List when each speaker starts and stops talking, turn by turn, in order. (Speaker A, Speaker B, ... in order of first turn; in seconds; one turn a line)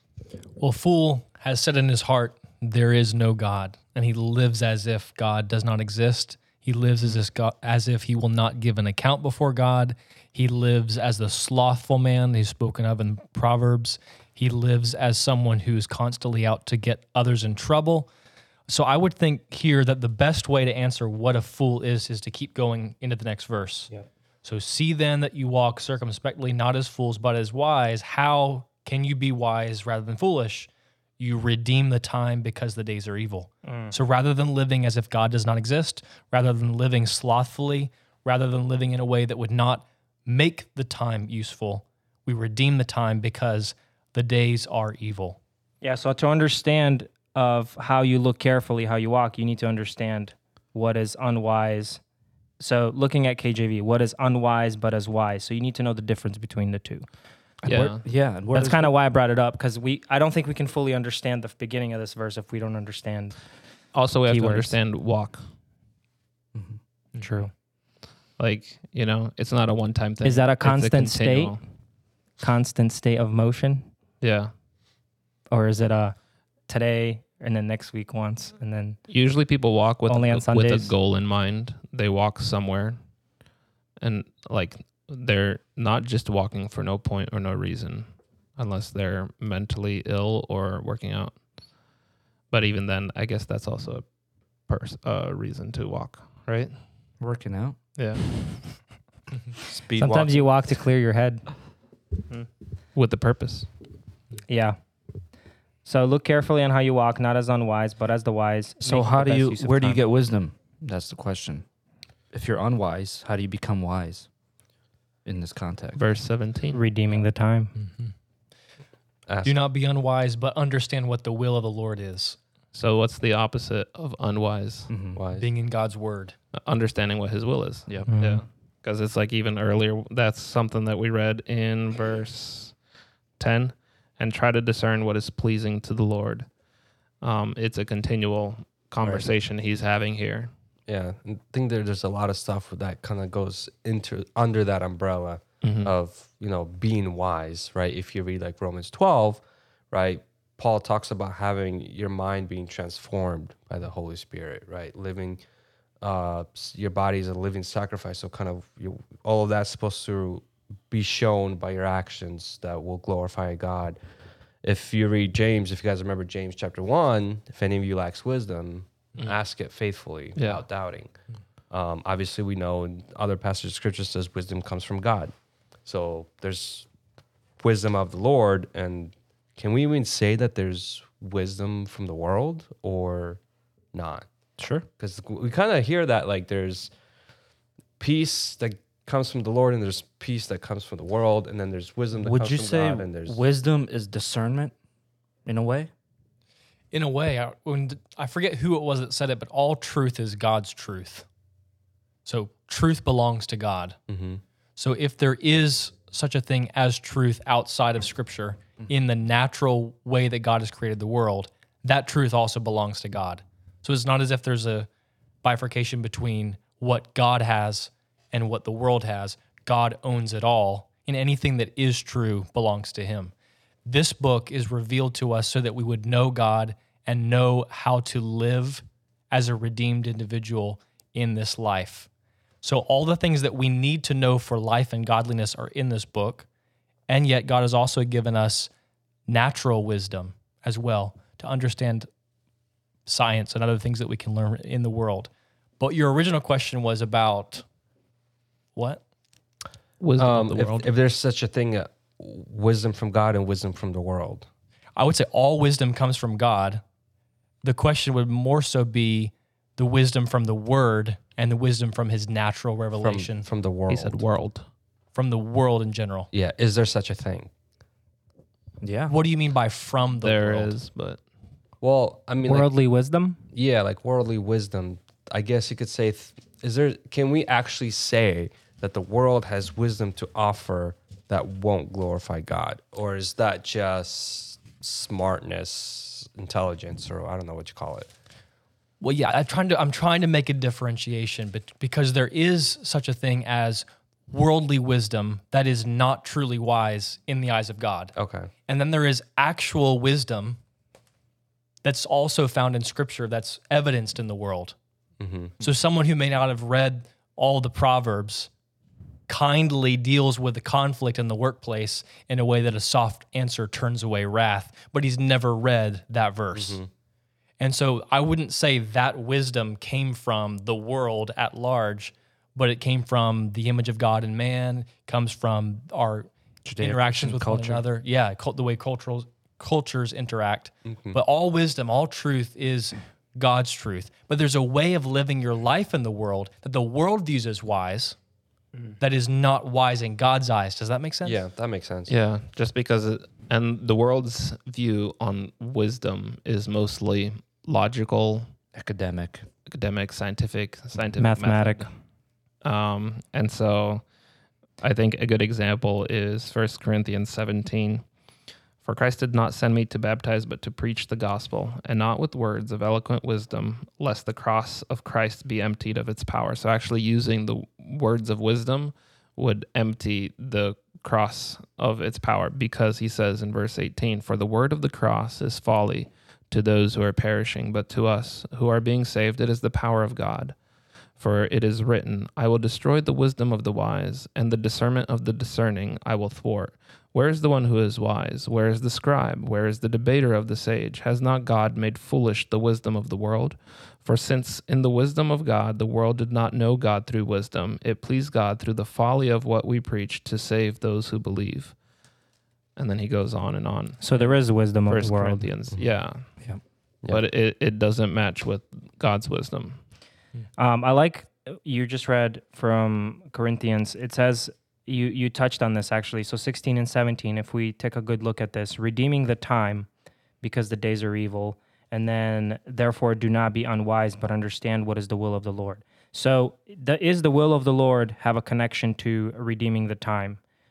Speaker A: 0.6-18.1
Speaker A: 18.7-23.9
Speaker A: 24.4-45.4
Speaker B: 33.6-34.0
Speaker B: 45.8-52.0
Speaker B: 52.6-57.1
Speaker C: 57.6-58.0
Speaker D: 57.7-58.9
Speaker B: 58.5-63.4
Speaker C: 63.9-65.4
Speaker B: 64.3-64.8
Speaker D: 66.5-66.8
Speaker B: 67.2-67.5
Speaker C: 68.4-71.6
Speaker B: 70.2-71.6
Speaker B: 72.4-73.9
Speaker C: 74.2-74.5
Speaker B: 75.5-76.2
Speaker B: 76.7-79.0
Speaker C: 79.1-83.0
Speaker B: 80.1-81.0
Speaker C: 84.0-91.4
Speaker C: 92.5-94.1
Speaker C: 94.7-96.7
Speaker D: 97.2-97.8
Speaker C: 98.0-98.8
Speaker E: 99.8-100.3
Speaker B: 100.0-101.5
Speaker C: 103.0-103.7
Speaker B: 104.5-104.8
Speaker B: 105.8-110.0
Speaker D: 108.8-111.7
Speaker D: 112.3-114.3
Speaker D: 115.2-116.0
Speaker C: 116.0-116.8
Speaker B: 116.7-117.7
Speaker A: 117.8-118.1
Speaker E: 119.3-119.6
Speaker A: 119.4-122.4
Speaker C: 122.7-124.9
Speaker D: 124.9-125.2
Speaker E: 125.2-125.5
Speaker A: 125.3-126.3
Speaker C: 126.5-132.8
Speaker B: 128.1-128.4
Speaker C: 133.4-136.5
Speaker C: 137.2-140.5
Speaker D: 139.0-139.3
Speaker E: 140.9-155.4
Speaker C: 145.6-145.9
Speaker E: 156.0-164.0
Speaker E: 164.6-171.1
Speaker C: 170.4-170.6
Speaker E: 171.7-175.3
Speaker E: 175.8-176.9
Speaker E: 177.6-183.4
Speaker E: 183.9-184.3
Speaker D: 184.6-184.9
Speaker E: 185.0-186.9
Speaker E: 188.0-193.4
Speaker D: 192.2-194.8
Speaker D: 195.5-195.9
Speaker A: 196.9-201.3
Speaker A: 202.2-204.0
Speaker E: 204.1-204.4
Speaker A: 204.8-214.9
Speaker A: 215.4-223.3
Speaker A: 223.9-232.1
Speaker A: 232.6-236.5
Speaker A: 237.1-238.7
Speaker A: 239.3-242.1
Speaker A: 243.1-247.7
Speaker A: 248.8-249.0
Speaker C: 250.0-250.9
Speaker E: 250.2-254.5
Speaker A: 255.0-256.8
Speaker A: 257.6-263.5
Speaker E: 263.0-264.2
Speaker C: 263.9-264.7
Speaker A: 265.1-266.3
Speaker E: 266.3-267.5
Speaker D: 268.8-269.2
Speaker A: 269.1-270.7
Speaker C: 270.2-271.2
Speaker E: 271.8-272.7
Speaker B: 272.4-273.4
Speaker E: 273.5-288.1
Speaker A: 289.0-298.1
Speaker E: 298.2-298.5
Speaker A: 298.7-300.6
Speaker A: 301.8-304.8
Speaker E: 305.2-305.6
Speaker A: 305.6-308.5
Speaker A: 309.3-316.8
Speaker E: 316.5-316.9
Speaker A: 317.6-338.2
Speaker D: 326.7-327.9
Speaker E: 330.9-331.2
Speaker A: 339.0-341.4
Speaker E: 341.2-342.1
Speaker C: 342.1-348.5
Speaker D: 348.8-349.5
Speaker C: 349.7-351.9
Speaker B: 351.2-351.9
Speaker C: 352.6-354.1
Speaker C: 354.8-358.1
Speaker C: 358.8-380.6
Speaker C: 381.2-401.8
Speaker C: 402.8-406.3
Speaker B: 404.0-405.5
Speaker C: 407.1-409.8
Speaker B: 410.6-419.9
Speaker B: 420.4-430.4